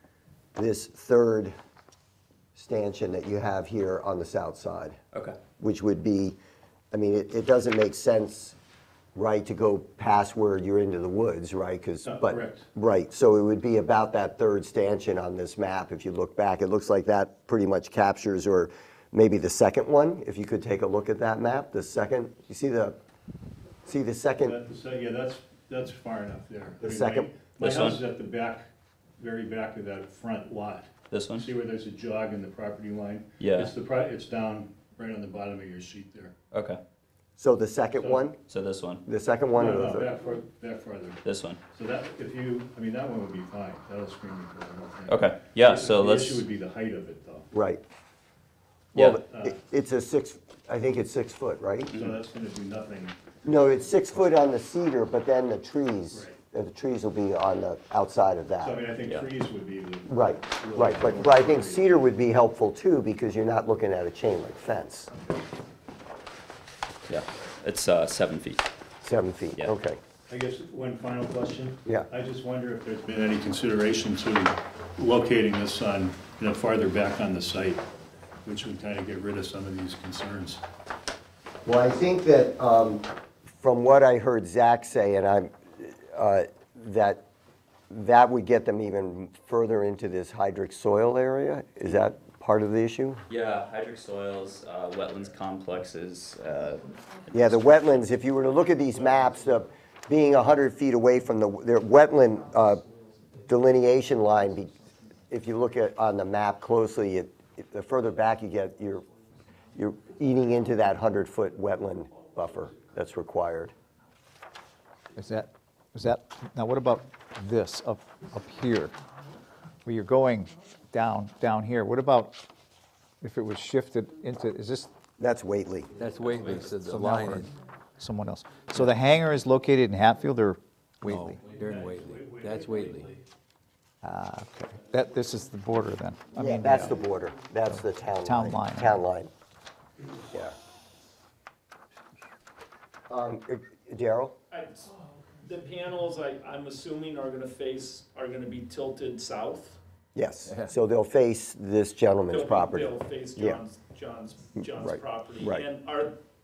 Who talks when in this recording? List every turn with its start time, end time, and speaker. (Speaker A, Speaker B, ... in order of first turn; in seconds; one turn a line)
Speaker A: 0.6-1.5
Speaker A: 2.5-5.0
Speaker B: 5.1-5.4
Speaker A: 5.6-6.4
Speaker A: 6.9-8.6
Speaker A: 9.2-23.0
Speaker C: 12.0-12.7
Speaker A: 23.9-24.6
Speaker C: 24.4-28.7
Speaker A: 26.8-27.3
Speaker B: 27.6-28.0
Speaker C: 29.2-36.3
Speaker B: 31.1-31.5
Speaker B: 33.4-33.7
Speaker B: 36.5-36.8
Speaker A: 37.4-38.4
Speaker C: 38.0-38.3
Speaker B: 38.5-39.0
Speaker A: 39.0-40.1
Speaker C: 39.5-47.5
Speaker B: 41.2-41.6
Speaker B: 45.1-46.4
Speaker A: 47.5-47.8
Speaker A: 48.9-52.0
Speaker B: 49.0-49.2
Speaker C: 49.1-49.6
Speaker C: 51.9-53.2
Speaker A: 53.5-58.8
Speaker C: 56.1-56.4
Speaker C: 58.6-62.1
Speaker A: 60.1-65.1
Speaker B: 67.1-68.7
Speaker A: 69.0-70.0
Speaker C: 70.3-77.9
Speaker C: 78.5-80.6
Speaker A: 81.7-87.2
Speaker A: 87.9-93.2
Speaker B: 93.3-96.9
Speaker A: 97.3-102.8
Speaker A: 103.5-104.7
Speaker A: 105.3-109.1
Speaker A: 109.8-113.7
Speaker D: 115.2-118.9
Speaker D: 119.8-122.4
Speaker D: 123.2-124.9
Speaker A: 125.2-125.9
Speaker E: 126.0-127.4
Speaker C: 126.3-126.7
Speaker D: 126.7-131.4
Speaker E: 131.0-133.1
Speaker C: 131.3-133.2
Speaker D: 134.0-137.0
Speaker A: 136.3-139.3
Speaker D: 137.7-139.0
Speaker A: 143.1-144.3
Speaker F: 144.5-149.8
Speaker A: 150.2-153.6
Speaker F: 152.3-156.1
Speaker A: 154.7-155.6